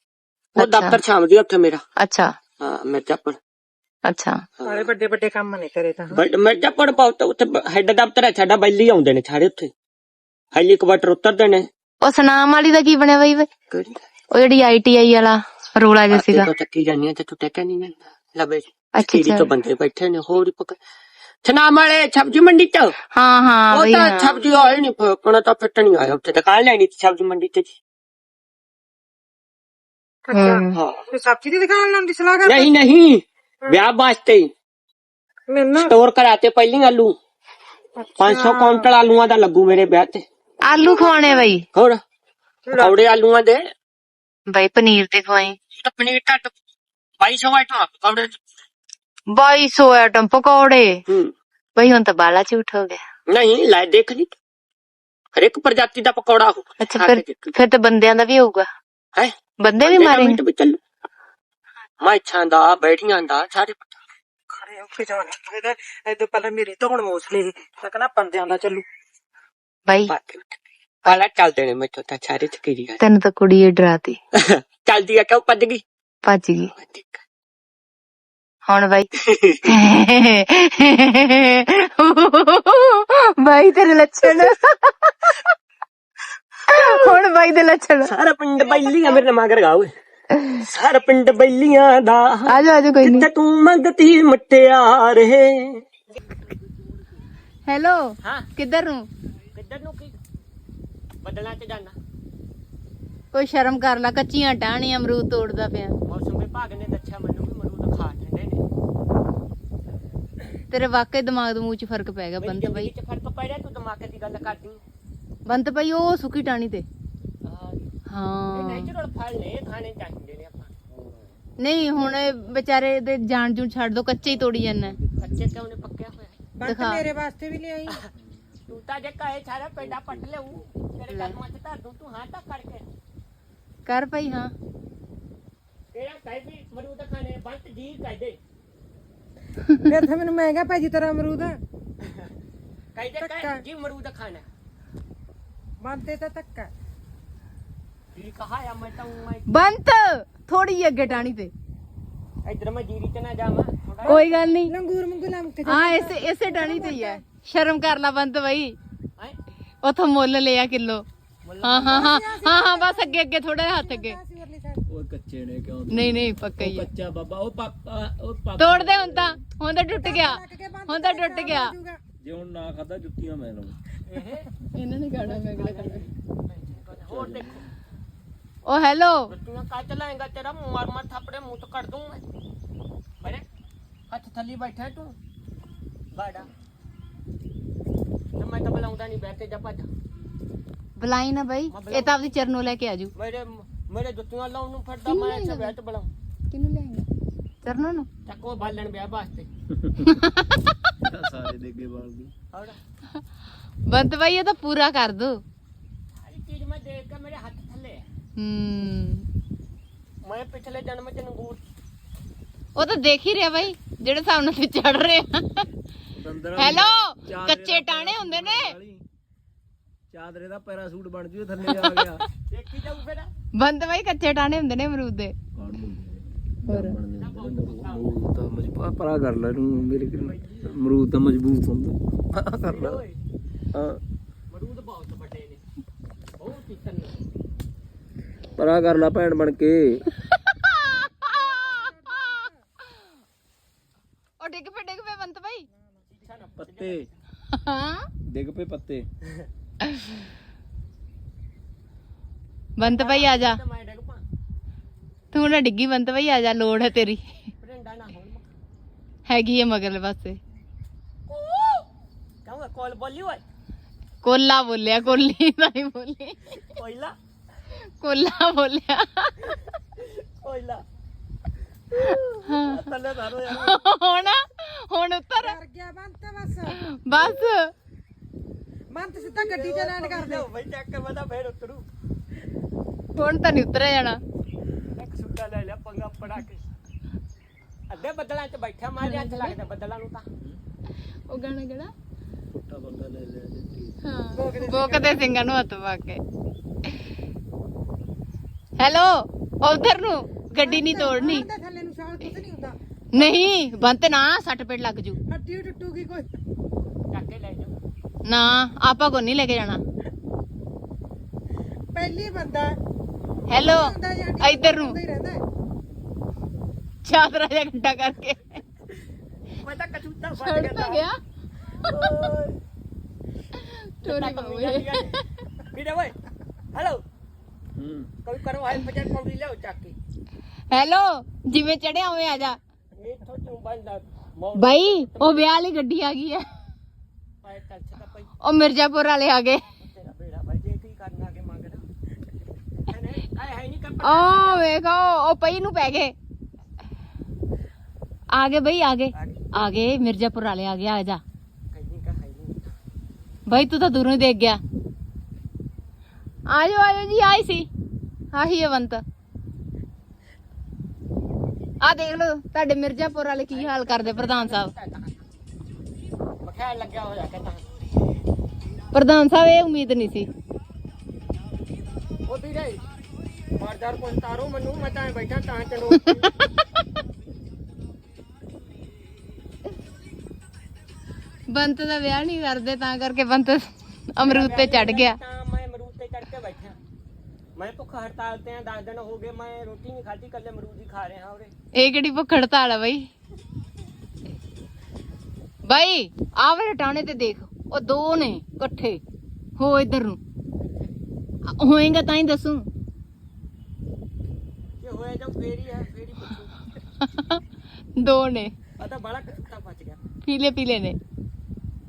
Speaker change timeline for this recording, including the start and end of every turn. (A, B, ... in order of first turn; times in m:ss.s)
0:00.6-0:01.0 A
0:00.6-0:01.8 B
0:02.0-0:02.3 A
0:02.6-0:03.4 B
0:04.1-0:04.4 A
0:04.6-0:04.8 B
0:04.6-0:06.2 C
0:06.1-0:09.7 B
0:10.5-0:11.7 B
0:12.0-0:13.4 A
0:13.7-0:14.0 B
0:14.3-0:16.5 A
0:16.1-0:20.8 B
0:19.0-0:19.5 A
0:21.4-0:23.0 B
0:23.1-0:24.4 A
0:23.7-0:27.8 B
0:30.3-0:32.7 C
0:30.3-0:30.7 A
0:30.7-0:31.0 B
0:32.4-0:34.5 B
0:35.5-0:35.9 C
0:35.8-0:37.2 B
0:38.0-0:38.9 C
0:38.2-0:40.2 B
0:40.7-0:41.6 A
0:40.8-0:41.5 C
0:41.7-0:42.0 B
0:42.7-0:43.0 C
0:42.8-0:43.7 B
0:44.5-0:45.6 A
0:45.8-0:46.5 B
0:47.2-0:48.4 B
0:49.3-0:51.0 A
0:51.8-0:53.0 A
0:53.3-0:54.3 B
0:55.4-0:57.5 B
0:56.8-0:58.7 A
0:59.2-1:00.8 B
0:59.6-1:00.4 A
1:02.0-1:04.0 B
1:04.5-1:08.8 C
1:10.1-1:13.0 B
1:13.0-1:14.2 A
1:14.4-1:15.8 B
1:16.2-1:16.7 A
1:16.8-1:17.2 B
1:18.7-1:19.1 A
1:19.3-1:19.6 B
1:19.6-1:24.7 A
1:24.2-1:24.6 B
1:26.7-1:27.1 B
1:26.8-1:28.1 A
1:28.0-1:29.9 B
1:30.5-1:35.9 B
1:32.5-1:33.3 A
1:37.7-1:39.1 D
1:38.2-1:38.5 B
1:39.5-1:40.2 B
1:41.2-1:42.0 B
1:43.3-1:46.0 D
1:46.0-1:48.6 B
1:50.7-1:52.9 D
1:52.4-1:54.8 B
1:55.5-1:56.9 D
1:57.4-1:57.8 B
1:58.1-1:58.9 D
1:58.5-2:00.7 B
2:00.9-2:01.4 E
2:01.6-2:05.0 D
2:04.2-2:05.7 E
2:05.2-2:06.4 B
2:06.6-2:08.0 C
2:06.7-2:07.0 D
2:08.2-2:08.7 E
2:08.7-2:12.9 B
2:09.8-2:10.3 E
2:13.9-2:14.5 D
2:15.9-2:18.4 B
2:19.9-2:21.6 C
2:22.0-2:22.3 B
2:23.0-2:24.5 B
2:23.2-2:23.6 C
2:25.8-2:26.7 C
2:28.1-2:29.5 B
2:29.5-2:31.5 D
2:32.4-2:34.5 B
2:34.0-2:37.2 C
2:34.1-2:34.7 D
2:35.7-2:38.8 D
2:39.8-2:41.0 D
2:41.4-2:42.2 B
2:41.6-2:44.2 D
2:41.7-2:44.8 C
2:44.9-2:49.4 E
2:45.9-2:46.9 D
2:48.6-2:51.7 D
2:49.9-2:52.0 C
2:52.2-2:53.8 E
2:54.1-2:54.5 B
2:54.8-2:56.0 D
2:55.2-2:57.7 B
2:57.0-2:57.6 E
2:58.7-2:59.2 D
2:59.3-3:02.2 B
3:04.1-3:05.2 B
3:06.1-3:06.5 B
3:08.4-3:09.9 B
3:11.0-3:13.1 D
3:11.7-3:12.3 B
3:13.1-3:16.1 B
3:15.1-3:15.7 D
3:16.5-3:17.1 D
3:17.6-3:18.1 D
3:18.3-3:19.5 B
3:19.8-3:20.2 E
3:20.1-3:20.8 D
3:21.0-3:22.3 E
3:22.5-3:22.8 B
3:23.9-3:25.4 D
3:26.2-3:28.1 B
3:28.4-3:29.3 D
3:30.2-3:31.6 B
3:32.8-3:35.7 D
3:36.1-3:39.0 E
3:36.6-3:38.7 D
3:40.1-3:42.2 E
3:42.5-3:43.3 B
3:43.6-3:45.3 D
3:45.6-3:53.0 E
3:47.2-3:48.2 B
3:50.2-3:50.7 B
3:52.7-3:53.2 B
3:53.8-3:54.0 E
3:54.5-3:55.6 B
3:56.4-3:57.2 B
3:58.6-4:00.1 E
4:00.7-4:01.8 D
4:01.1-4:02.6 C
4:04.4-4:05.6 D
4:06.1-4:07.1 B
4:06.6-4:07.0 E
4:07.6-4:08.1 D
4:08.3-4:09.1 E
4:12.8-4:14.2 B
4:12.9-4:13.6 D
4:15.3-4:17.2 D
4:17.6-4:18.5 B
4:19.3-4:20.4 D
4:21.3-4:21.9 B
4:22.4-4:23.4 B
4:24.2-4:26.4 D
4:26.6-4:27.1 B
4:28.0-4:29.5 D
4:30.0-4:30.8 B
4:31.9-4:33.8 B
4:32.5-4:32.8 E
4:33.4-4:33.8 E
4:33.6-4:35.5 D
4:35.4-4:36.8 C
4:37.2-4:37.7 D
4:38.9-4:40.5 C
4:39.2-4:41.9 B
4:43.2-4:44.2 D
4:44.9-4:46.6 B
4:47.9-4:50.3 B
4:49.0-4:49.5 D
4:51.3-4:51.9 D
4:52.5-4:54.0 E
4:54.0-4:56.2 D
4:54.3-4:55.3 C
4:58.8-5:01.5 D
5:00.5-5:03.4 C
5:03.2-5:05.2 D
5:05.3-5:06.3 C
5:07.1-5:07.7 B
5:08.3-5:09.8 D
5:11.9-5:12.8 C
5:13.5-5:15.4 C
5:13.5-5:15.0 D
5:17.0-5:18.4 D
5:19.6-5:21.1 B
5:20.4-5:21.2 D
5:21.8-5:22.5 B
5:23.6-5:25.2 D
5:24.0-5:25.2 B
5:25.7-5:26.2 B
5:26.7-5:27.0 B
5:27.8-5:28.1 E
5:28.2-5:30.0 B
5:30.8-5:32.6 D
5:31.6-5:32.0 A
5:33.0-5:35.6 B
5:34.8-5:35.7 A
5:35.3-5:36.4 D
5:37.4-5:38.3 B
5:38.7-5:39.5 D
5:38.9-5:39.2 A
5:39.7-5:41.8 B
5:42.9-5:44.7 B
5:44.4-5:46.2 D
5:48.4-5:49.1 D
5:49.1-5:49.5 B
5:49.6-5:51.2 D
5:51.7-5:52.7 B
5:53.5-5:54.6 D
5:56.5-5:57.7 D
5:58.3-5:59.0 D
6:01.8-6:04.7 D
6:03.5-6:05.2 B
6:06.4-6:07.7 B
6:08.9-6:10.3 D
6:12.3-6:12.8 B
6:13.6-6:16.3 B
6:21.5-6:23.7 D
6:24.2-6:26.8 B
6:24.4-6:25.2 D
6:27.6-6:31.5 B
6:31.8-6:33.1 D
6:35.7-6:39.0 D
6:39.6-6:40.2 D
6:40.6-6:41.0 B
6:41.6-6:42.7 D
6:44.8-6:46.8 B
6:48.0-6:48.5 D
6:48.8-6:50.0 B
6:50.3-6:51.0 D